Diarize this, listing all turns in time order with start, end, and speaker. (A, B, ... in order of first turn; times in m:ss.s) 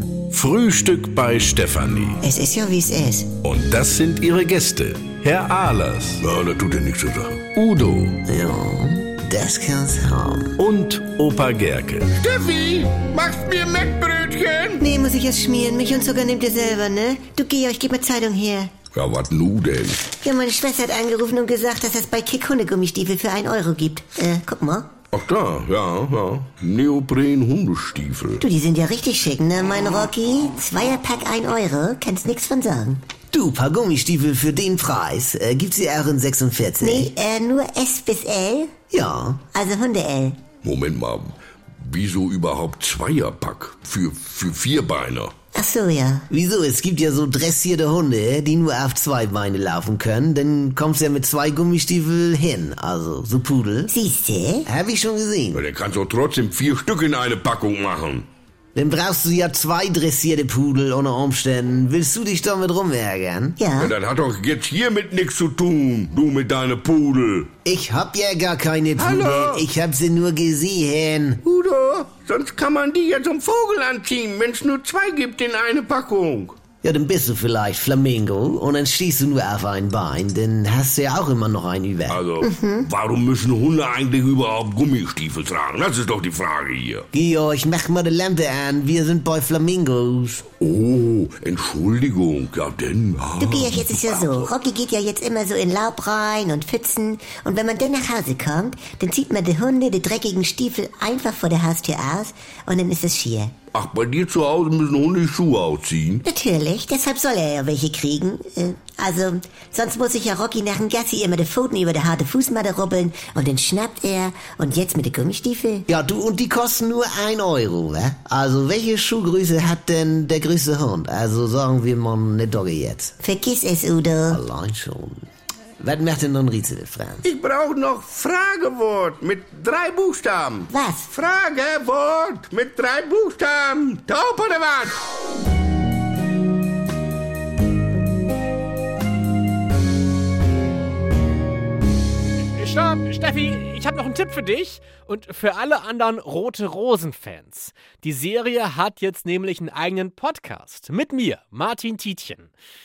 0:00.3-0:02.2 A
0:02.2-0:03.3 B
0:03.4-0:06.2 A
0:06.2-0:07.7 C
0:07.6-0:08.1 A
0:08.2-0:10.6 D
0:10.6-0:12.1 A
0:12.1-0:14.8 C
0:14.8-0:18.7 B
0:18.9-0:20.0 C
0:20.1-0:24.9 B
0:25.1-0:28.4 C
0:28.4-0:33.0 B
0:33.3-0:37.1 D
0:36.8-0:38.7 B
0:38.9-0:39.4 D
0:39.5-0:40.4 B
0:40.6-0:45.3 C
0:45.5-0:46.2 B
0:46.3-0:53.9 D
0:53.9-0:54.7 B
0:54.6-0:55.6 D
0:55.5-0:58.2 C
0:58.7-1:03.6 D
1:03.6-1:03.9 B
1:03.8-1:07.5 C
1:07.6-1:11.4 D
1:09.0-1:09.6 C
1:11.4-1:16.6 C
1:16.8-1:22.2 D
1:22.1-1:27.0 C
1:22.4-1:22.9 B
1:27.1-1:30.4 D
1:30.6-1:34.5 C
1:33.4-1:43.5 B
1:43.7-1:46.2 C
1:46.2-1:55.8 B
1:55.9-2:03.2 D
2:03.2-2:04.4 B
2:04.3-2:05.2 D
2:05.8-2:07.2 D
2:07.2-2:15.0 C
2:10.7-2:11.1 B
2:22.5-2:32.5 E